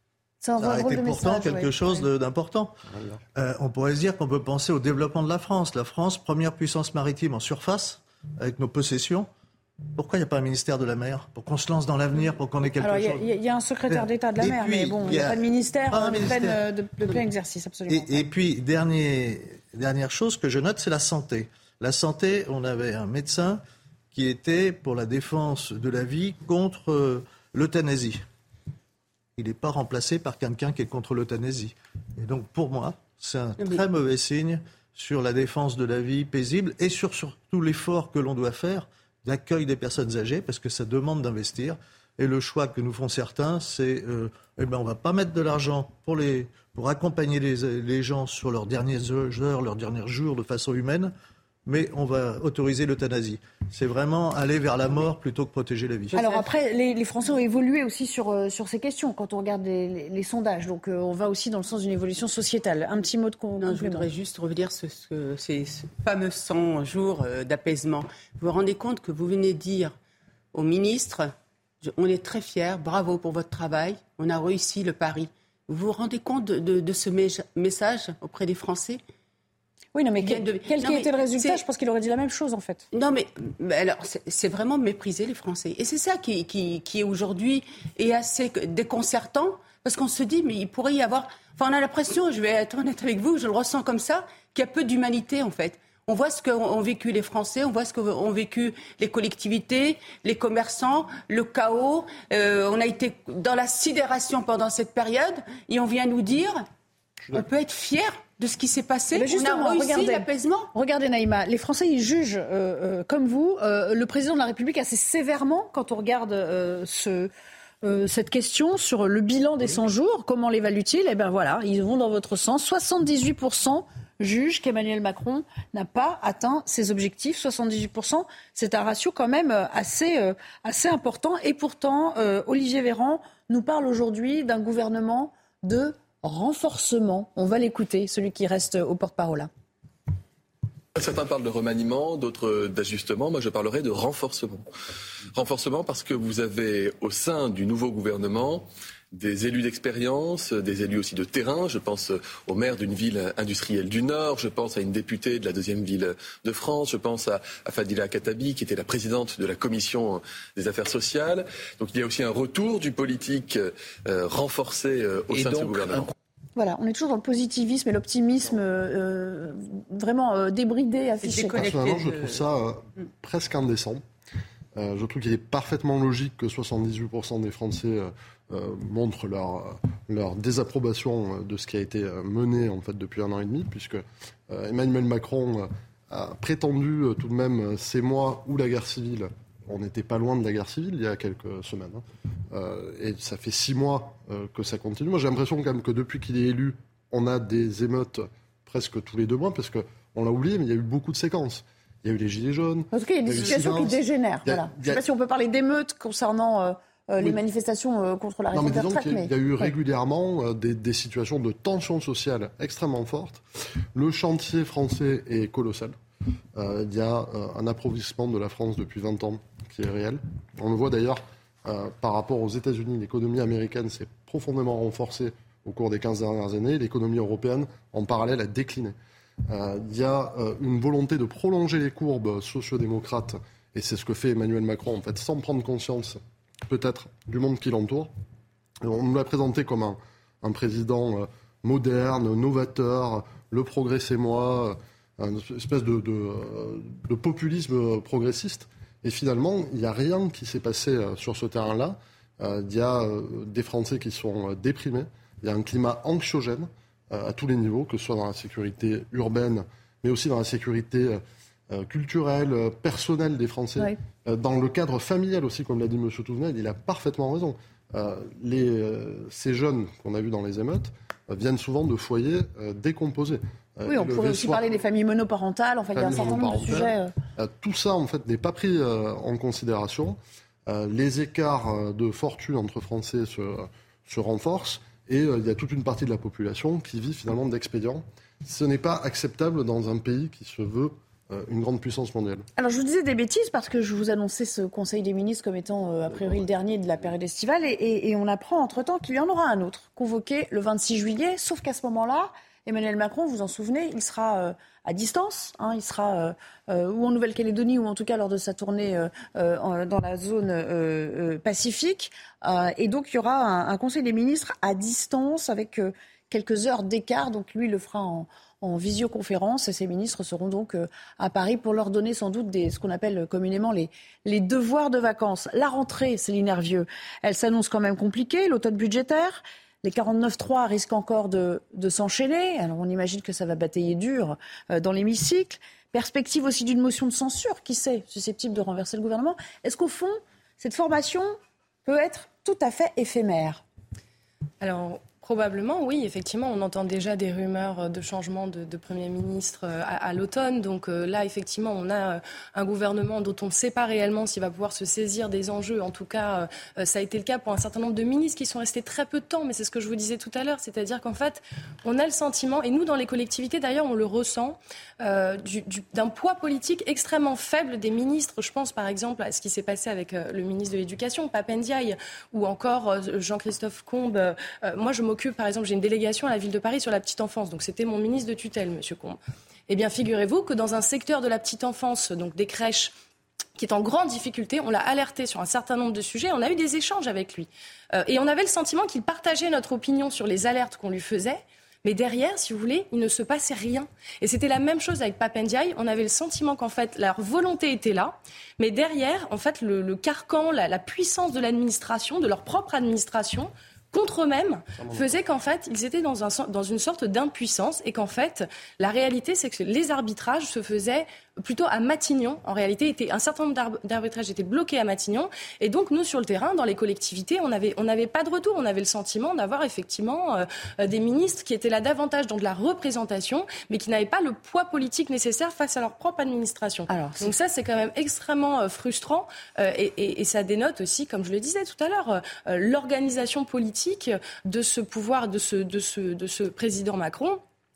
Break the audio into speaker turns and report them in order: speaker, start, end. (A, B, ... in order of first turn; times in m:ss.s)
0:00.4-0:02.0 A
0:00.6-0:02.8 B
0:03.4-0:09.3 B
0:09.9-0:13.3 B
0:12.8-0:18.2 A
0:13.9-0:16.6 B
0:17.9-0:28.2 B
0:29.4-0:51.1 B
0:51.7-0:56.2 B
0:56.1-0:56.5 C
0:56.2-1:04.1 A
1:03.6-1:10.0 C
1:10.5-1:19.0 C
1:20.0-1:22.8 A
1:20.2-1:21.6 C
1:22.9-1:46.6 C
1:47.3-1:50.7 C
1:49.1-1:57.3 A
1:57.8-2:19.5 A
2:21.0-2:24.7 D
2:25.3-2:46.1 D
2:46.6-2:51.6 A
2:51.2-2:52.5 C
2:51.6-2:54.0 E
2:54.8-3:25.0 E
3:22.9-3:29.7 A
3:28.5-3:33.4 E
3:33.9-3:36.0 E
3:36.6-3:49.0 E
3:49.5-3:58.1 E
3:58.8-4:34.7 E
4:33.9-4:37.1 A
4:36.0-4:52.5 E
4:52.6-5:43.6 A
5:44.6-6:23.0 F
6:23.6-7:17.4 F
7:06.9-7:07.3 A